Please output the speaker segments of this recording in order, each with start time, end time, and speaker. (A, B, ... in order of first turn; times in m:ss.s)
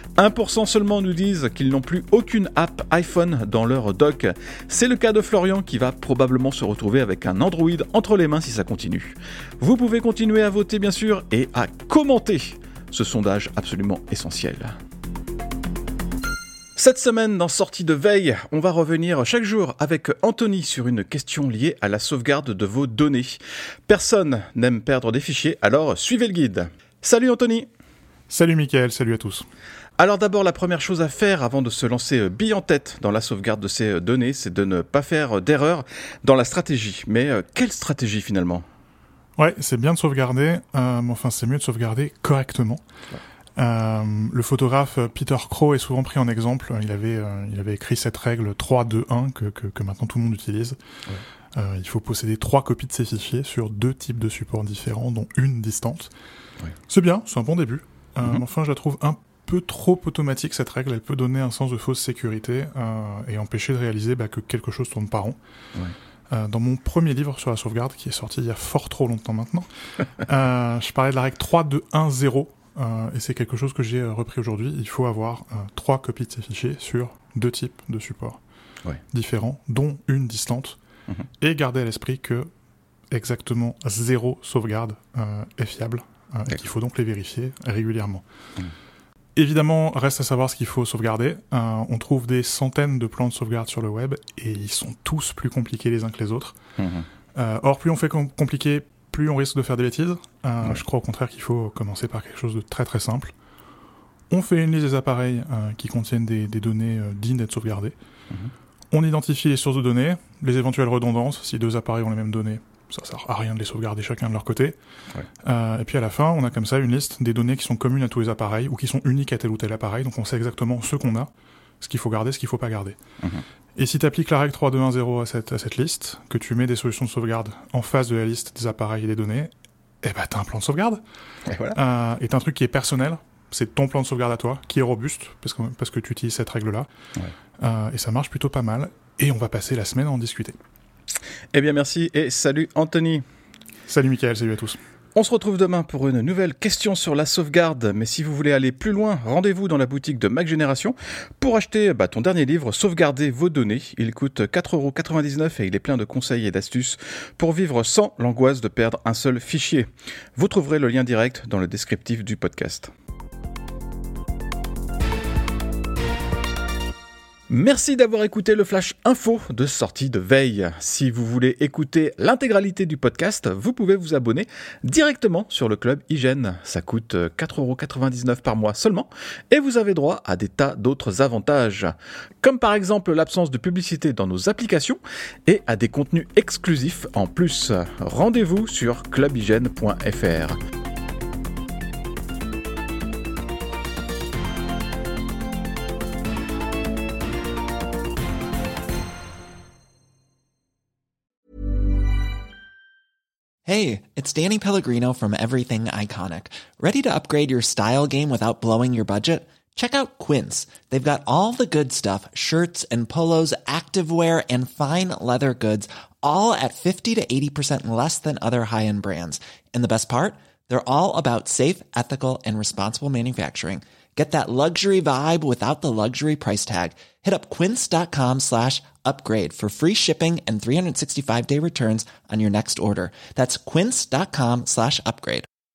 0:00.2-0:14.8 A
0:16.8-0:27.7 A
0:28.3-0:29.4 B
0:30.0-0:38.6 A
0:39.4-0:42.8 B
0:43.6-0:50.8 B
0:51.6-0:56.1 B
0:56.9-1:05.4 B
1:06.3-1:09.7 B
1:10.2-1:18.4 B
1:19.1-1:20.8 B
1:21.4-1:22.5 B
1:23.1-1:28.2 B
1:29.4-1:36.6 B
1:36.8-1:37.0 A
1:37.4-1:43.3 B
1:44.3-1:48.0 B
1:48.9-1:54.8 B
1:55.4-2:01.3 B
2:01.8-2:03.0 B
2:03.8-2:09.5 B
2:10.0-2:11.0 B
2:11.5-2:11.8 A
2:11.8-2:16.9 B
2:17.6-2:20.6 B
2:21.5-2:23.2 A
2:23.9-2:24.8 B
2:25.2-2:42.9 A
2:47.5-3:10.6 A
3:23.7-3:55.5 C